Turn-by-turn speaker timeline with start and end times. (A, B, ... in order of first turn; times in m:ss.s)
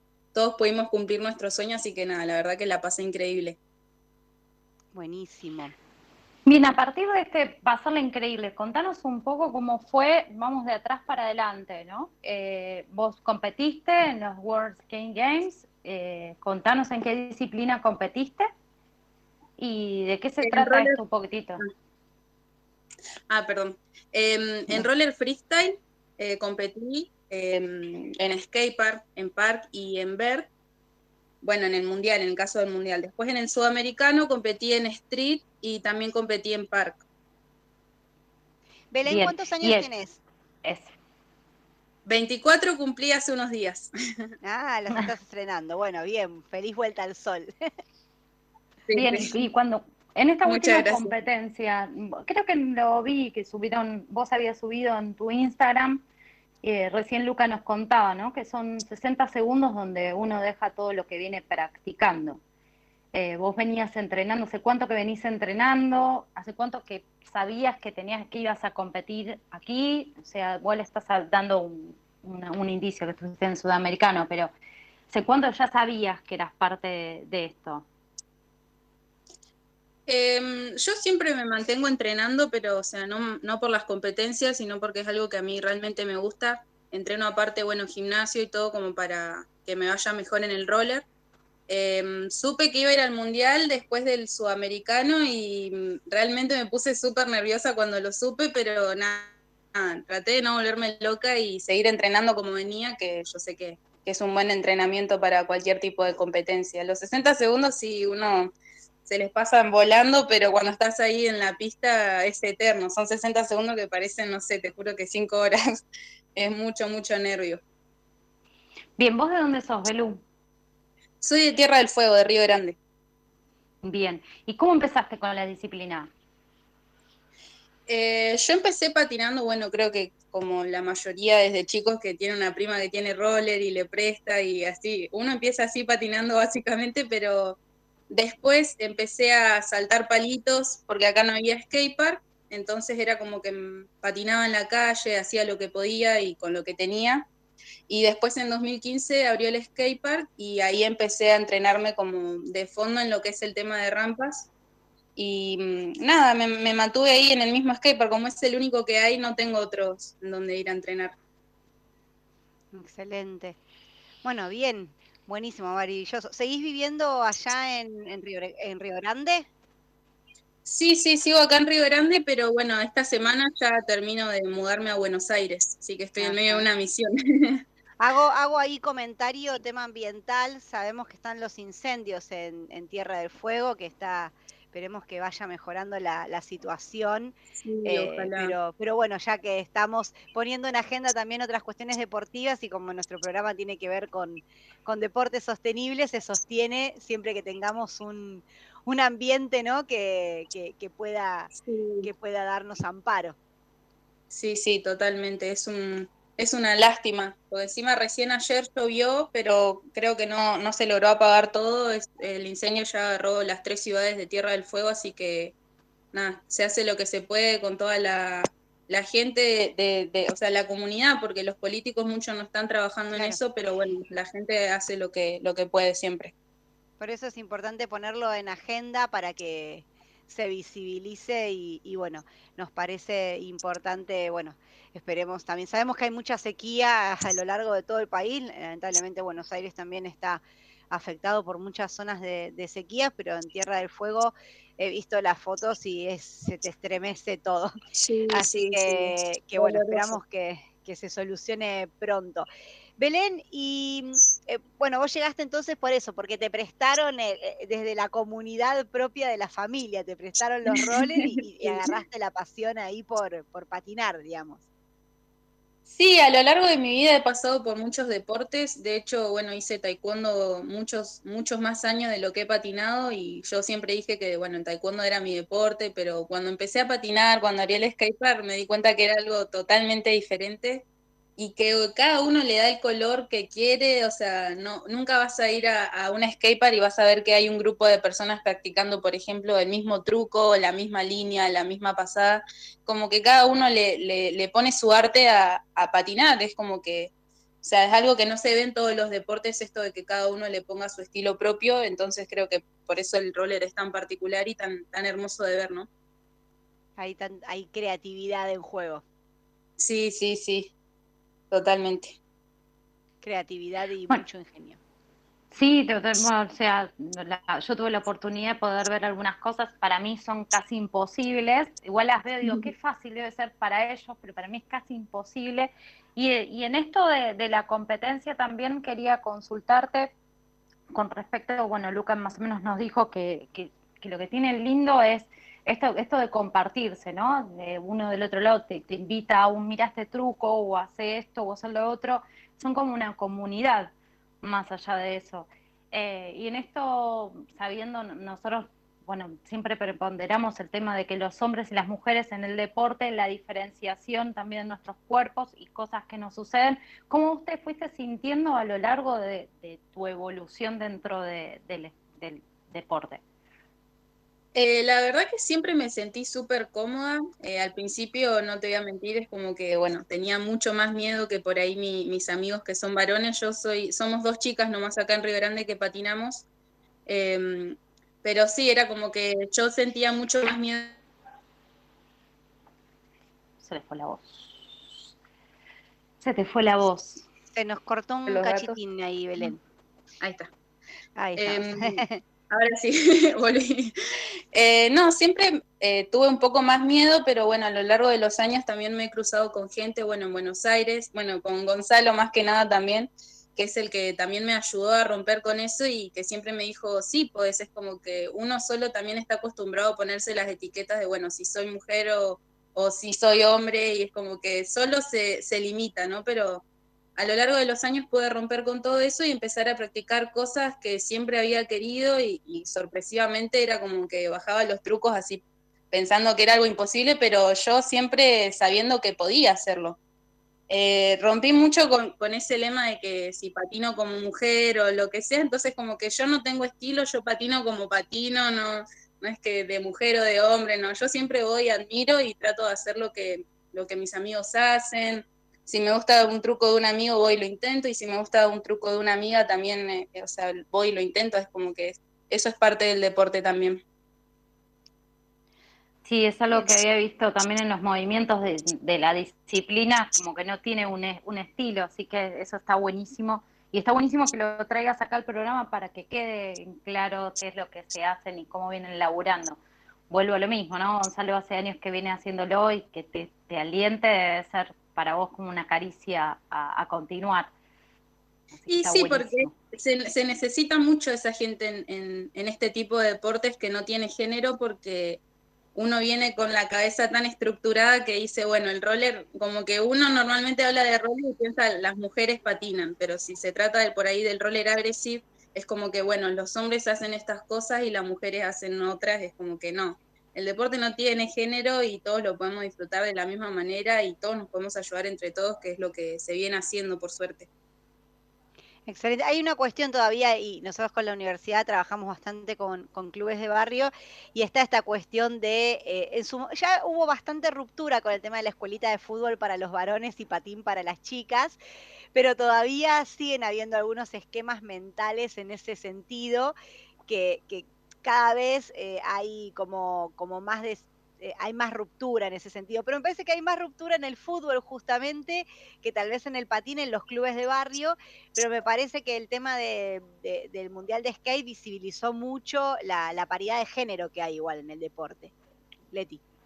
0:00.3-0:03.6 A
0:04.9-0:05.7 B
0:06.4-0:18.5 C
0:19.6-0:21.6 C
0:20.4-0:21.0 A
0:23.3-0:30.5 A
0:31.4-0:37.0 A
0:38.9-0:40.2 B
0:39.1-0:39.9 C
0:40.6-0:40.9 C
0:42.0-0:43.9 A
0:44.4-0:47.5 B
0:48.9-0:49.3 A
0:48.9-0:56.0 C
0:50.4-0:51.1 A
0:56.6-1:02.4 C
1:03.1-1:14.5 C
1:15.1-1:17.8 C
1:20.1-1:31.0 A
1:31.7-1:48.5 A
1:49.0-1:55.8 A
1:56.4-1:57.6 A
1:59.0-2:00.2 C
2:01.2-2:02.8 A
2:03.8-2:06.1 C
2:07.9-2:17.6 A
2:18.1-2:27.3 A
2:27.9-2:34.5 A
2:35.2-2:41.1 A
2:42.7-2:43.6 B
2:44.2-2:49.5 B
2:50.6-2:57.6 A
2:56.2-2:56.7 B
2:58.0-3:21.5 B
3:07.6-3:08.6 A
3:21.6-3:22.1 A
3:22.0-3:23.4 B
3:24.3-3:35.5 A
3:36.1-3:46.3 A
3:43.1-3:43.4 B
3:47.0-4:07.7 B
4:08.0-4:10.2 A
4:08.3-4:24.6 B
4:20.7-4:21.9 A
4:25.9-4:40.8 A
4:41.4-5:05.9 A
5:07.0-5:09.0 B
5:09.8-5:10.7 A
5:11.5-5:12.2 A
5:13.2-5:14.8 B
5:15.5-5:30.1 C
5:30.9-6:03.2 C
6:04.5-6:16.4 A
6:17.1-6:21.0 A
6:23.6-6:25.0 C
6:26.2-6:27.2 C
6:27.5-6:29.6 B
6:28.3-6:28.8 A
6:30.2-6:30.5 A
6:31.2-6:32.2 B
6:31.4-6:33.9 A
6:34.5-6:56.6 A
6:57.2-7:10.0 A
7:10.7-7:33.8 A
7:36.0-7:49.6 C
7:50.1-7:57.5 C
7:58.6-7:59.5 C
7:58.7-8:05.2 A
8:05.7-8:27.5 A
8:28.8-8:41.6 B
8:42.1-8:46.5 B
8:47.1-9:05.3 B
9:05.9-9:06.2 B